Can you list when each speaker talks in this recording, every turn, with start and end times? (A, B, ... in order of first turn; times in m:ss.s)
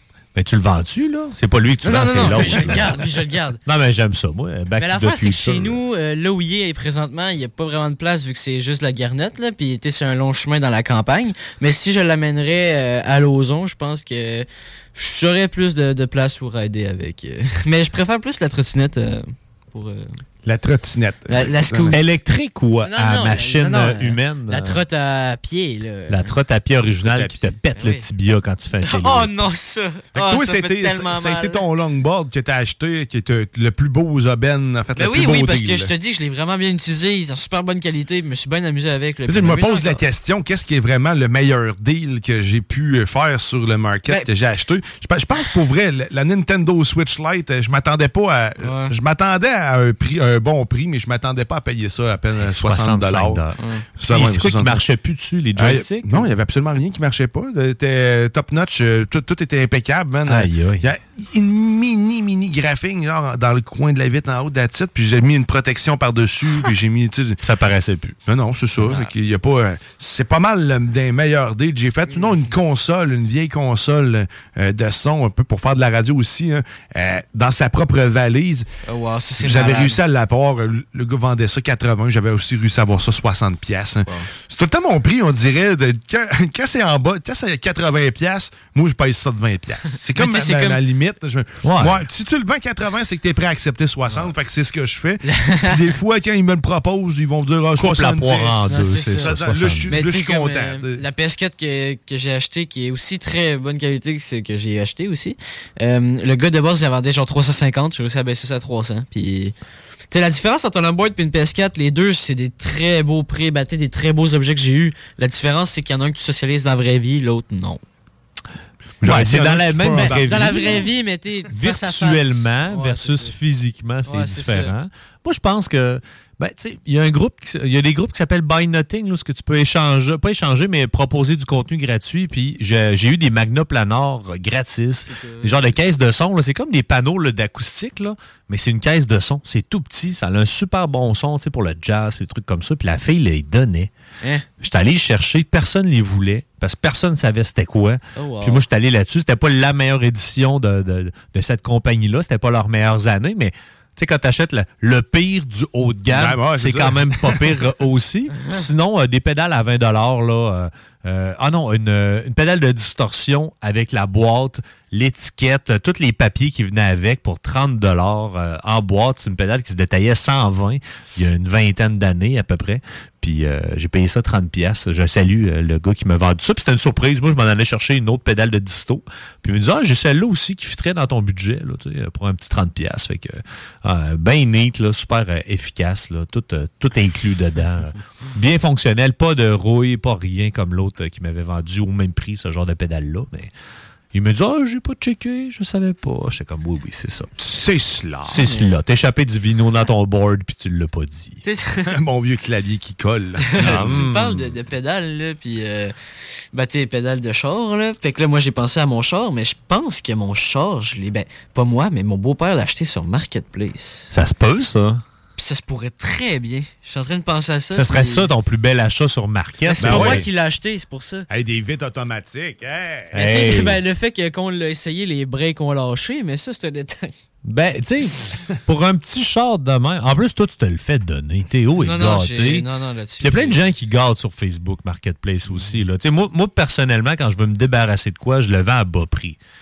0:00.4-0:03.1 A
0:01.8-0:03.6 B
0:03.6-0:05.8 A
0:04.8-0:20.2 B
0:20.4-0:22.0 C
0:21.3-0:22.0 B
0:21.9-0:24.8 A
0:22.8-0:26.4 B
0:26.1-0:29.3 A
0:27.1-0:27.4 C
0:27.8-0:28.1 B
0:28.8-0:31.6 B
0:30.2-0:35.9 C
0:35.0-0:40.0 B
0:39.3-0:53.4 C
0:48.6-0:48.9 B
0:52.4-0:56.3 A
0:53.6-0:53.8 B
0:54.0-0:54.8 C
0:55.6-1:07.4 C
1:00.3-1:00.9 A
1:07.4-1:08.2 A
1:08.3-1:18.7 C
1:08.8-1:09.1 B
1:12.1-1:12.5 B
1:18.9-1:20.0 B
1:19.4-1:41.0 C
1:30.2-1:30.8 B
1:31.6-1:32.1 A
1:35.3-1:36.0 B
1:37.8-1:40.0 A
1:38.7-1:39.3 B
1:39.9-1:49.5 B
1:50.1-1:57.8 B
1:59.0-2:00.9 C
1:59.0-2:00.9 A
2:00.0-2:03.4 B
2:01.5-2:23.9 A
2:04.1-2:04.7 B
2:15.1-2:15.8 B
2:24.6-3:13.5 A
2:28.2-2:28.6 B
2:36.1-2:37.6 C
3:14.1-3:17.3 A
3:17.4-3:18.5 C
3:18.3-3:21.4 A
3:18.5-3:18.7 B
3:21.4-3:21.9 B
3:21.9-3:24.0 C
3:23.5-3:26.0 B
3:23.6-3:24.6 A
3:26.5-3:34.1 B
3:34.1-3:35.0 A
3:35.4-3:38.3 B
3:37.7-3:40.3 A
3:39.6-3:41.3 B
3:39.8-3:40.3 C
3:41.3-3:43.1 C
3:43.1-3:43.8 A
3:43.1-3:47.1 B
3:47.4-3:52.7 A
3:51.8-3:53.6 B
3:53.2-3:59.4 A